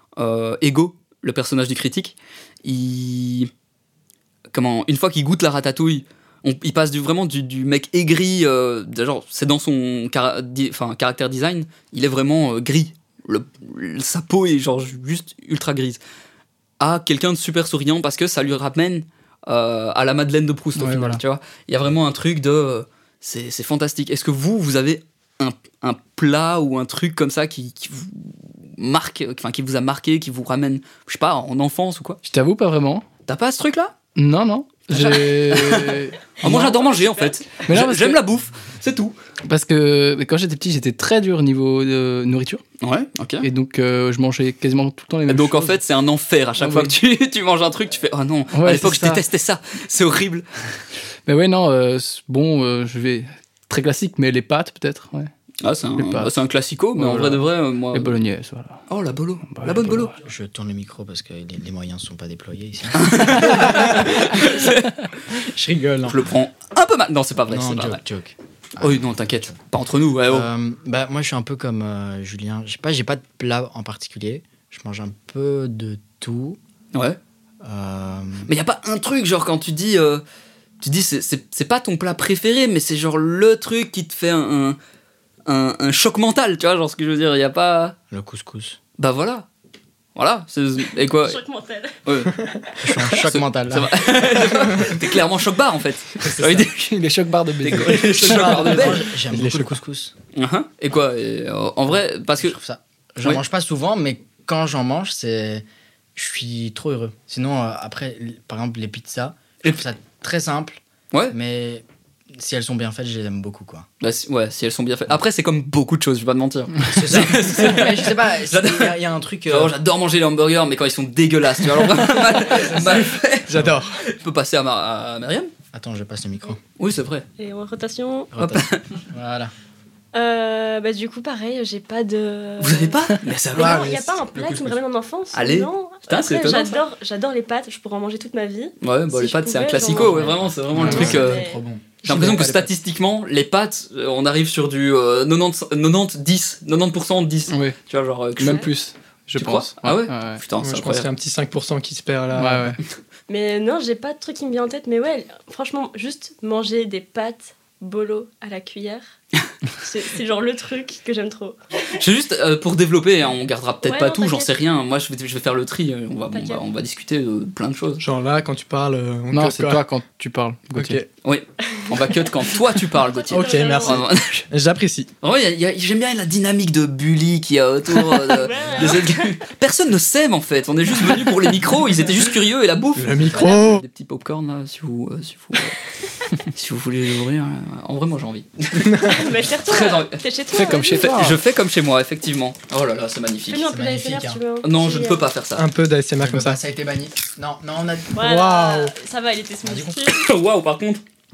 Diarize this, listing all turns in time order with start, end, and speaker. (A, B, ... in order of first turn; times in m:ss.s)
0:00.2-0:03.5 A
0:04.5-0:16.0 A
0:16.8-0:32.2 A
0:20.8-0:21.2 B
0:32.2-0:33.1 B
0:33.3-0:34.0 A
0:34.2-0:36.8 B
0:34.9-0:39.2 A
0:36.5-0:37.4 C
0:37.7-0:38.2 B
0:39.5-0:42.6 B
0:42.8-0:43.5 A
0:43.4-0:45.8 B
0:45.3-0:50.5 A
0:46.6-0:47.0 B
0:48.5-0:49.2 B
0:51.3-0:55.3 B
0:55.6-0:58.2 A
0:56.0-0:56.3 B
0:57.0-0:58.8 B
0:58.9-1:00.2 A
0:59.5-1:00.2 B
1:00.2-1:04.2 D
1:02.9-1:05.0 A
1:05.6-1:06.0 E
1:05.8-1:06.2 D
1:06.0-1:08.0 A
1:07.5-1:09.6 D
1:08.8-1:10.5 A
1:10.2-1:16.6 D
1:17.6-1:18.5 D
1:18.5-1:20.2 A
1:20.8-1:24.8 A
1:25.5-1:28.0 A
1:28.1-1:28.8 D
1:29.0-1:29.5 A
1:30.2-1:31.4 A
1:31.2-1:32.0 C
1:32.0-1:32.4 A
1:32.8-1:34.1 D
1:33.0-1:37.0 A
1:36.6-1:38.7 B
1:37.6-1:39.1 A
1:38.0-1:40.1 D
1:39.3-1:39.8 E
1:40.4-1:42.6 A
1:42.4-1:53.9 D
1:54.0-2:05.5 A
1:56.8-1:59.8 D
2:02.5-2:03.7 D
2:03.5-2:04.0 E
2:05.7-2:06.6 D
2:06.8-2:07.3 A
2:07.4-2:08.3 C
2:08.3-2:09.5 D
2:08.4-2:08.9 A
2:10.1-2:21.6 C
2:12.6-2:13.9 A
2:13.5-2:14.8 D
2:15.3-2:16.8 A
2:18.8-2:21.5 A
2:19.7-2:21.9 D
2:20.9-2:21.1 B
2:20.9-2:21.2 E
2:22.0-2:22.7 E
2:22.0-2:28.7 A
2:27.5-2:27.8 B
2:28.4-2:30.4 B
2:28.4-2:28.7 C
2:29.4-2:31.1 A
2:30.6-2:32.8 E
2:32.3-2:32.8 B
2:33.3-2:39.1 C
2:39.7-2:41.6 C
2:41.9-2:48.0 A
2:43.8-2:44.5 C
2:46.3-2:46.6 C
2:48.0-2:49.8 E
2:49.3-2:51.0 B
2:50.7-2:51.1 E
2:51.2-2:54.5 A
2:51.7-2:54.0 C
2:53.3-2:55.1 E
2:55.2-3:05.8 A
2:58.0-2:59.4 C
2:58.5-2:59.0 D
3:03.0-3:03.8 E
3:03.3-3:03.7 C
3:06.4-3:10.2 A
3:08.9-3:09.2 E
3:09.0-3:11.2 C
3:10.5-3:11.4 B
3:10.9-3:13.7 A
3:13.5-3:15.3 C
3:13.6-3:14.4 D
3:14.6-3:15.7 A
3:15.6-3:16.6 E
3:16.2-3:18.2 D
3:18.1-3:20.3 C
3:18.2-3:18.9 E
3:19.6-3:20.0 D
3:20.1-3:21.0 A